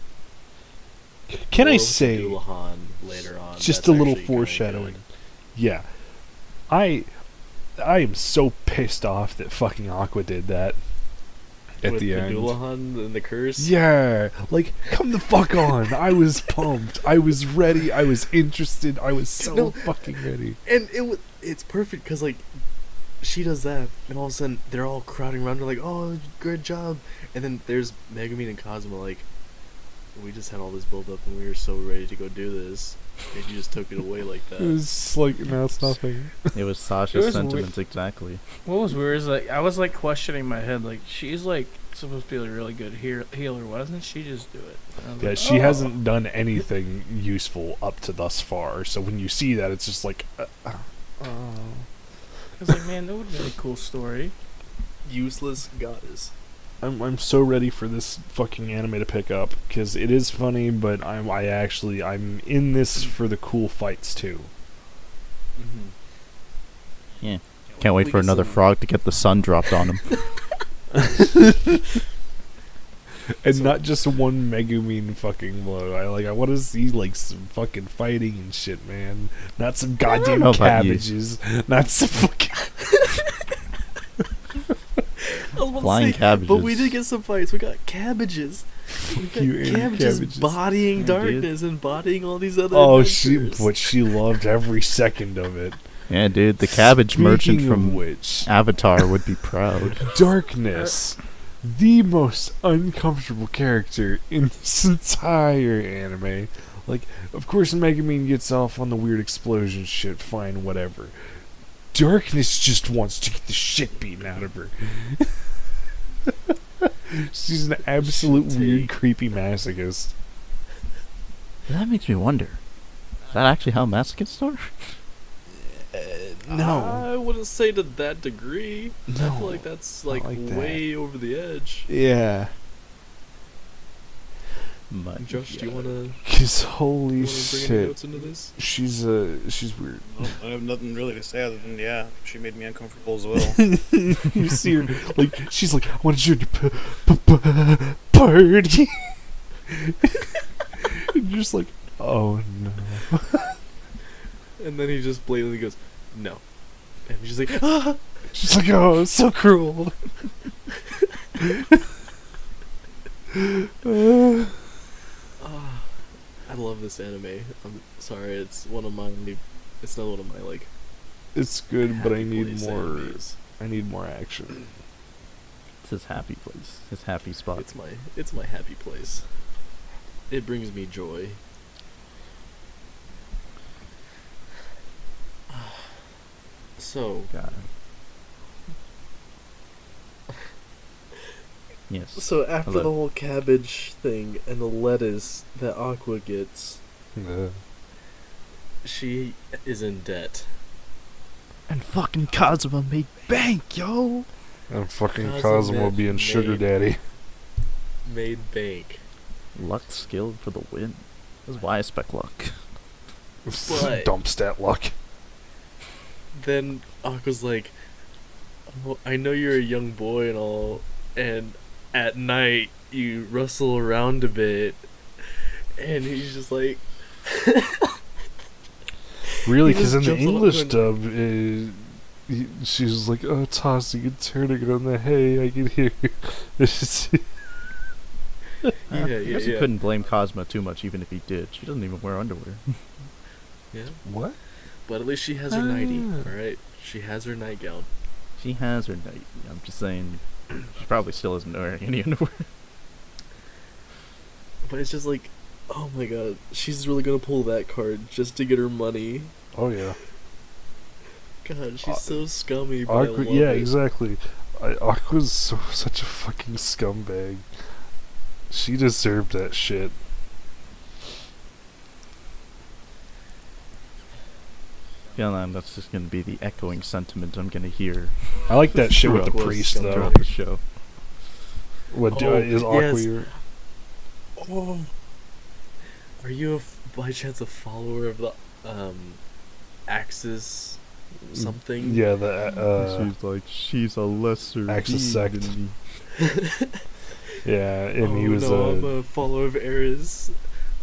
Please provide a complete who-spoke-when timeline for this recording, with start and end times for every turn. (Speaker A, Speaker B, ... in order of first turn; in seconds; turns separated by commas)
Speaker A: 1.3-2.4, Speaker B: 1.5-5.0, Speaker A: 3.6-5.0, Speaker A: 5.5-5.9, Speaker A: 6.7-7.1, Speaker A: 7.8-10.8, Speaker A: 11.8-12.6, Speaker B: 11.8-13.7, Speaker A: 13.6-20.6, Speaker B: 19.4-19.9, Speaker B: 20.6-22.5, Speaker B: 23.2-29.3, Speaker B: 30.1-34.8, Speaker A: 34.6-36.5, Speaker C: 36.5-38.4, Speaker D: 37.1-37.7, Speaker D: 38.6-45.9, Speaker C: 45.1-45.3, Speaker A: 45.2-51.9, Speaker D: 52.6-54.3, Speaker B: 55.0-56.3, Speaker A: 56.8-64.5, Speaker B: 65.6-65.9, Speaker C: 67.2-70.1, Speaker B: 68.0-68.6, Speaker A: 70.9-71.9, Speaker A: 73.4-82.9, Speaker B: 73.5-73.8, Speaker C: 80.2-81.1, Speaker B: 85.2-93.8, Speaker C: 85.8-87.0, Speaker A: 89.1-90.6, Speaker C: 91.0-91.5, Speaker A: 92.7-95.8, Speaker C: 96.1-100.1, Speaker A: 96.8-98.5, Speaker A: 100.0-111.2, Speaker A: 111.9-115.3, Speaker A: 116.8-120.1, Speaker B: 118.0-118.9, Speaker C: 121.7-122.6, Speaker C: 123.3-124.9, Speaker A: 125.7-127.1, Speaker B: 126.5-131.9, Speaker A: 129.1-130.8, Speaker A: 131.9-132.5, Speaker C: 134.9-135.9, Speaker B: 135.2-136.2, Speaker A: 136.2-138.0, Speaker B: 137.2-138.5, Speaker A: 138.5-140.1, Speaker E: 140.2-143.6, Speaker A: 143.4-149.1, Speaker A: 149.7-153.5, Speaker B: 154.6-156.4, Speaker B: 157.1-158.0, Speaker A: 158.3-159.9, Speaker A: 163.3-164.6, Speaker B: 165.4-165.8, Speaker B: 166.5-170.7, Speaker A: 171.3-174.7, Speaker B: 171.8-173.3, Speaker C: 175.8-177.7, Speaker B: 177.6-179.2, Speaker B: 180.3-181.4, Speaker B: 185.5-185.8, Speaker B: 186.8-187.3, Speaker C: 187.3-187.7, Speaker C: 191.9-192.9, Speaker B: 192.2-196.8, Speaker A: 197.2-197.6, Speaker B: 198.8-200.5, Speaker C: 201.7-204.3, Speaker A: 204.7-207.0, Speaker B: 205.2-206.7, Speaker B: 208.1-209.0, Speaker C: 209.6-212.6, Speaker A: 213.5-214.9, Speaker B: 213.6-214.1, Speaker B: 216.3-217.8, Speaker B: 218.7-224.8, Speaker B: 225.8-228.0, Speaker A: 229.4-237.2, Speaker B: 229.5-230.9, Speaker B: 238.9-239.7, Speaker C: 238.9-242.8, Speaker B: 243.7-244.0, Speaker A: 244.1-244.4, Speaker B: 244.9-247.9, Speaker A: 245.5-246.3, Speaker C: 248.4-252.5, Speaker B: 254.6-259.3, Speaker A: 259.5-260.0, Speaker B: 261.4-263.7, Speaker A: 262.9-267.4, Speaker A: 268.5-269.9, Speaker C: 275.2-278.2, Speaker A: 278.5-280.1, Speaker B: 278.9-280.3, Speaker C: 279.1-280.6, Speaker A: 281.9-283.3, Speaker B: 282.1-283.3, Speaker B: 284.4-284.9, Speaker B: 286.2-289.2, Speaker B: 289.9-292.0, Speaker A: 291.4-293.1, Speaker C: 292.8-295.8, Speaker A: 294.7-295.5, Speaker B: 296.2-296.8, Speaker A: 297.4-298.9, Speaker B: 298.0-300.4